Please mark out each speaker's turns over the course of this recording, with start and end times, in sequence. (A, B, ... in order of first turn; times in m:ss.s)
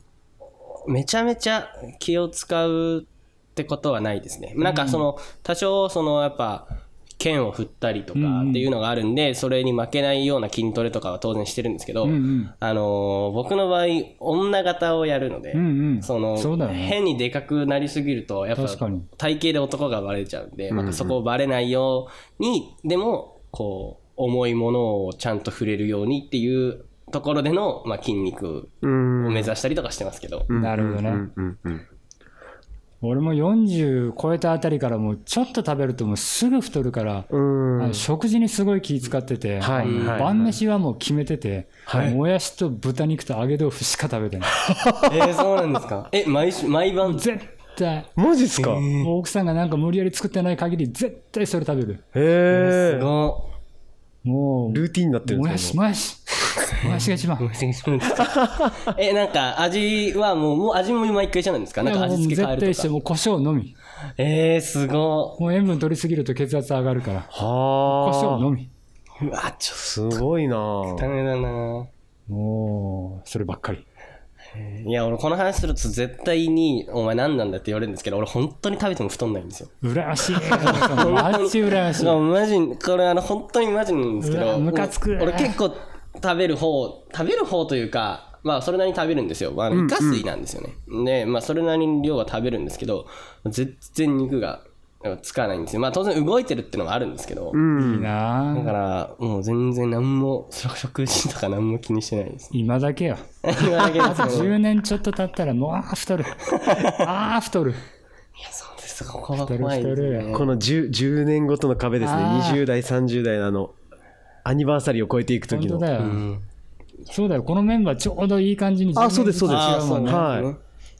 0:00.6-0:30.5 A
0:04.6-0:05.0 B
0:08.1-0:08.7 B
0:12.0-0:12.5 B
0:15.5-0:17.0 B
0:18.6-0:19.1 B
0:20.7-0:21.2 C
0:28.8-0:29.5 C
0:30.5-0:31.8 C
0:30.5-0:31.2 B
0:33.0-0:44.6 B
0:37.3-0:38.1 C
0:39.6-0:40.6 C
0:39.8-0:40.5 A
0:41.8-0:42.2 C
0:44.7-0:45.2 C
0:45.0-0:47.3 A
0:47.0-0:48.1 B
0:48.2-0:48.9 C
0:48.6-0:49.1 A
0:49.0-0:52.0 B
0:52.1-0:53.1 C
0:52.5-0:53.5 A
0:54.2-0:57.5 B
0:54.7-0:55.8 C
0:56.8-1:02.9 A
0:58.2-0:58.9 C
1:01.8-1:03.7 B
1:04.2-1:05.4 A
1:05.4-1:07.3 B
1:07.3-1:08.5 C
1:07.8-1:08.7 B
1:09.2-1:10.2 A
1:09.8-1:11.1 C
1:10.9-1:11.9 A
1:12.3-1:13.8 B
1:14.5-1:19.7 A
1:19.8-1:22.2 B
1:20.3-1:37.6 A
1:24.2-1:25.6 B
1:29.7-1:30.3 C
1:37.5-1:38.1 C
1:37.8-1:38.7 B
1:38.5-1:42.5 A
1:42.5-1:43.3 B
1:43.4-1:44.6 A
1:44.0-1:47.8 B
1:46.5-1:47.0 A
1:48.4-1:50.5 A
1:49.4-1:50.3 B
1:50.3-1:53.8 C
1:52.0-1:52.6 B
1:54.4-1:55.9 C
1:55.5-1:56.2 B
1:56.0-1:56.4 A
1:57.1-2:00.3 B
1:58.9-2:00.5 C
1:59.5-2:00.6 A